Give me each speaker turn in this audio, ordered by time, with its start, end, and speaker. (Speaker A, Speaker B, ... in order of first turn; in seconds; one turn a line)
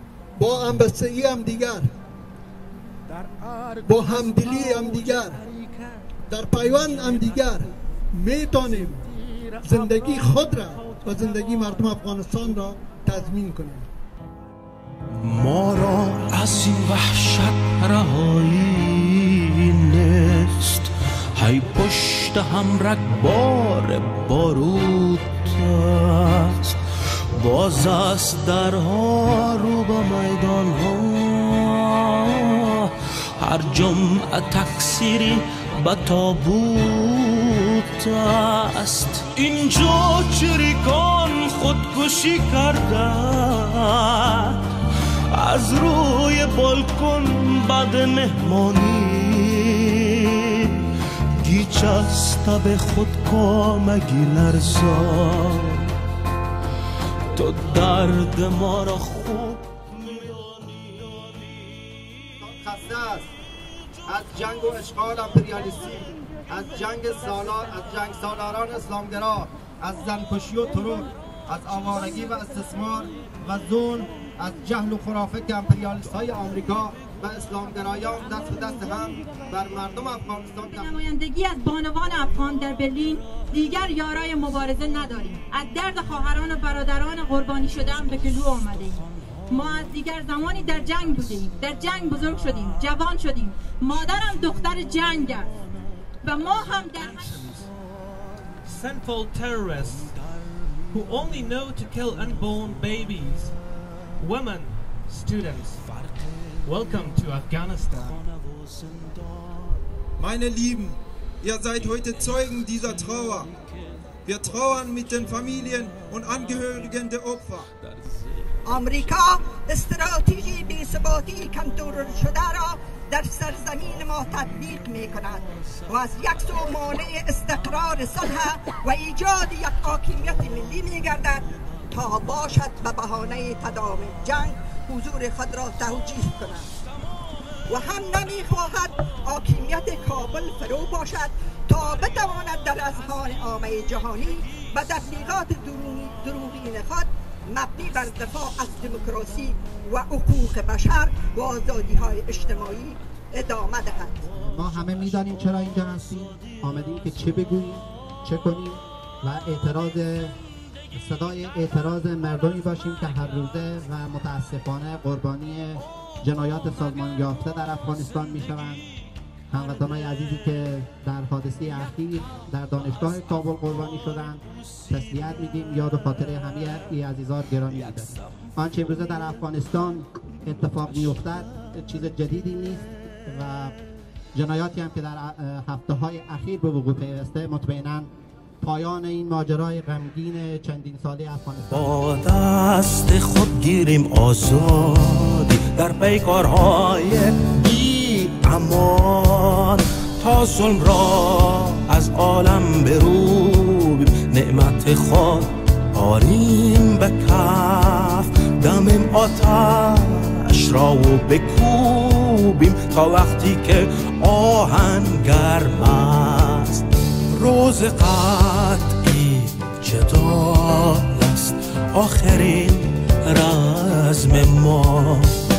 Speaker A: 0.4-1.9
Speaker B: 3.1-5.7
Speaker A: 3.9-5.4
Speaker A: 6.3-9.0
Speaker A: 9.6-13.9
Speaker B: 15.2-44.6
Speaker B: 45.3-55.9
Speaker B: 57.3-62.1
Speaker C: 62.5-63.2
Speaker C: 64.1-80.8
Speaker D: 80.6-95.5
Speaker B: 94.0-95.7
Speaker D: 96.2-97.5
Speaker E: 97.1-97.7
Speaker B: 97.4-97.7
Speaker E: 98.7-100.1
Speaker B: 99.8-103.1
Speaker E: 100.9-103.5
Speaker E: 104.2-105.8
Speaker B: 105.8-109.4
Speaker E: 106.7-108.2
Speaker F: 110.2-111.7
Speaker B: 111.8-113.5
Speaker F: 112.3-112.9
Speaker A: 113.2-113.5
Speaker F: 114.3-115.5
Speaker A: 114.7-115.8
Speaker B: 115.5-116.2
Speaker F: 116.2-117.4
Speaker G: 118.7-136.7
Speaker G: 137.7-154.3
Speaker H: 154.3-160.3
Speaker H: 160.9-168.8
Speaker H: 169.5-183.7
Speaker H: 184.3-188.1
Speaker H: 188.6-192.0
Speaker B: 191.7-225.4